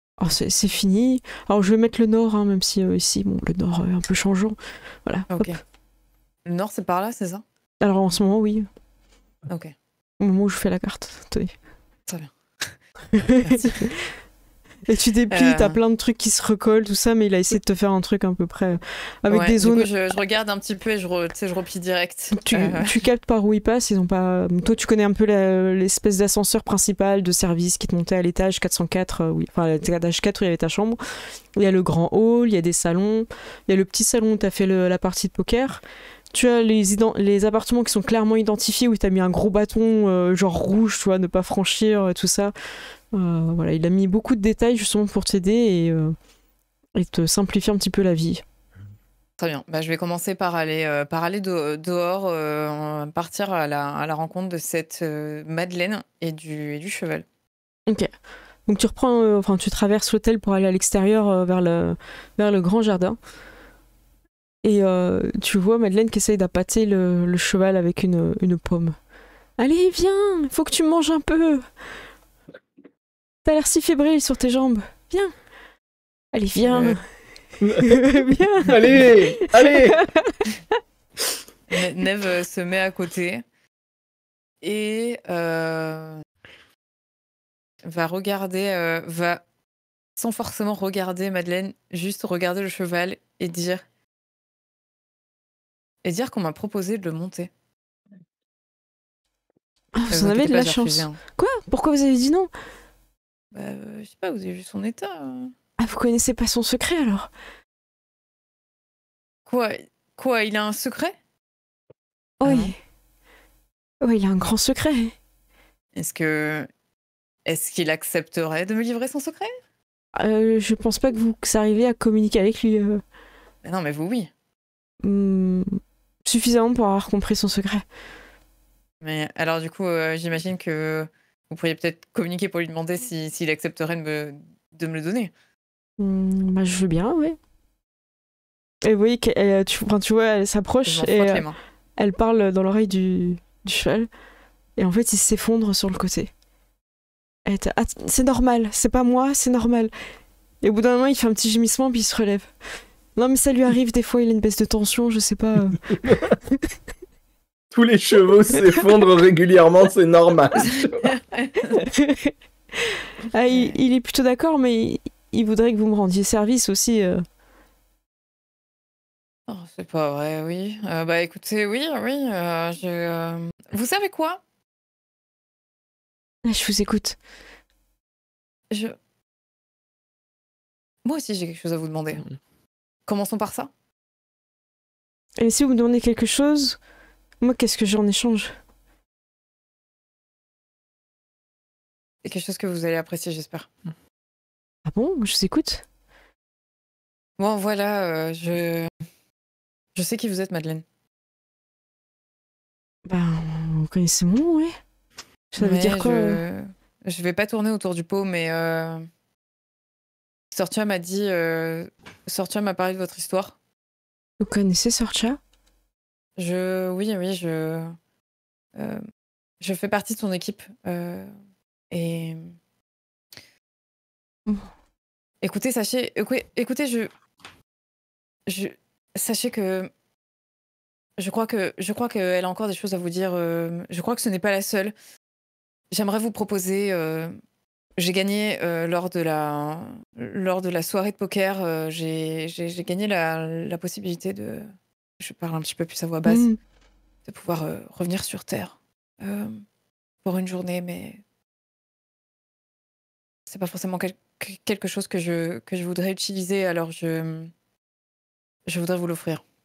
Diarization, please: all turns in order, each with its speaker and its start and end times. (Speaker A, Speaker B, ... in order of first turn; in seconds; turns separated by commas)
Speaker A: 0.2-5.5, Speaker B: 5.3-5.6, Speaker B: 6.5-7.4, Speaker A: 7.8-8.7, Speaker B: 9.5-9.7, Speaker A: 10.2-11.5, Speaker B: 12.1-12.8, Speaker A: 13.1-14.1, Speaker B: 13.4-13.8, Speaker A: 14.9-19.9, Speaker B: 15.3-15.8, Speaker B: 19.3-23.0, Speaker A: 22.3-31.0, Speaker A: 31.6-42.5, Speaker A: 43.1-46.1, Speaker A: 46.9-48.4, Speaker B: 49.4-57.2, Speaker A: 58.6-63.2, Speaker A: 64.6-69.0, Speaker A: 69.6-71.6, Speaker A: 73.5-75.3, Speaker A: 76.3-77.0, Speaker B: 76.6-77.0, Speaker C: 77.6-78.1, Speaker A: 77.8-80.5, Speaker C: 78.6-80.0, Speaker B: 81.7-83.4, Speaker B: 84.6-86.2, Speaker B: 87.8-89.4, Speaker B: 90.2-93.8, Speaker B: 96.0-97.5, Speaker A: 99.9-102.5, Speaker B: 100.1-101.2, Speaker B: 103.5-105.5, Speaker A: 105.8-107.3, Speaker B: 109.5-111.2, Speaker A: 112.4-112.8, Speaker B: 112.4-112.7, Speaker A: 114.0-115.1, Speaker B: 115.9-116.7, Speaker B: 117.5-119.5, Speaker A: 120.2-123.0, Speaker B: 123.6-124.3, Speaker A: 125.0-127.8, Speaker B: 129.0-135.3, Speaker A: 136.0-137.4, Speaker A: 138.8-141.4, Speaker B: 140.8-141.6, Speaker A: 142.0-144.1, Speaker A: 144.8-146.3, Speaker A: 147.4-149.9, Speaker A: 150.6-152.5, Speaker A: 153.2-156.0, Speaker C: 157.7-161.1, Speaker B: 161.0-161.7, Speaker A: 161.7-162.3, Speaker A: 163.3-167.2, Speaker B: 163.5-163.8, Speaker B: 169.5-174.4, Speaker A: 176.4-177.2, Speaker B: 178.7-178.9, Speaker B: 181.0-182.3, Speaker B: 183.1-183.7, Speaker A: 185.4-186.8, Speaker A: 187.4-188.5, Speaker B: 192.2-193.7, Speaker A: 194.9-195.8, Speaker B: 197.4-198.9, Speaker B: 199.9-200.8, Speaker A: 203.1-204.8, Speaker A: 205.5-206.4, Speaker B: 205.6-209.1, Speaker B: 210.5-213.6, Speaker A: 214.4-215.4, Speaker B: 216.4-217.9, Speaker B: 218.8-219.0, Speaker B: 219.6-221.3, Speaker B: 221.9-222.5, Speaker B: 225.4-227.1, Speaker B: 228.5-229.9, Speaker B: 231.2-234.9, Speaker B: 235.9-237.3, Speaker B: 238.0-244.7, Speaker B: 245.2-246.5, Speaker A: 246.2-246.6, Speaker B: 247.2-249.6, Speaker B: 250.2-251.2, Speaker B: 253.5-257.5, Speaker B: 258.6-259.4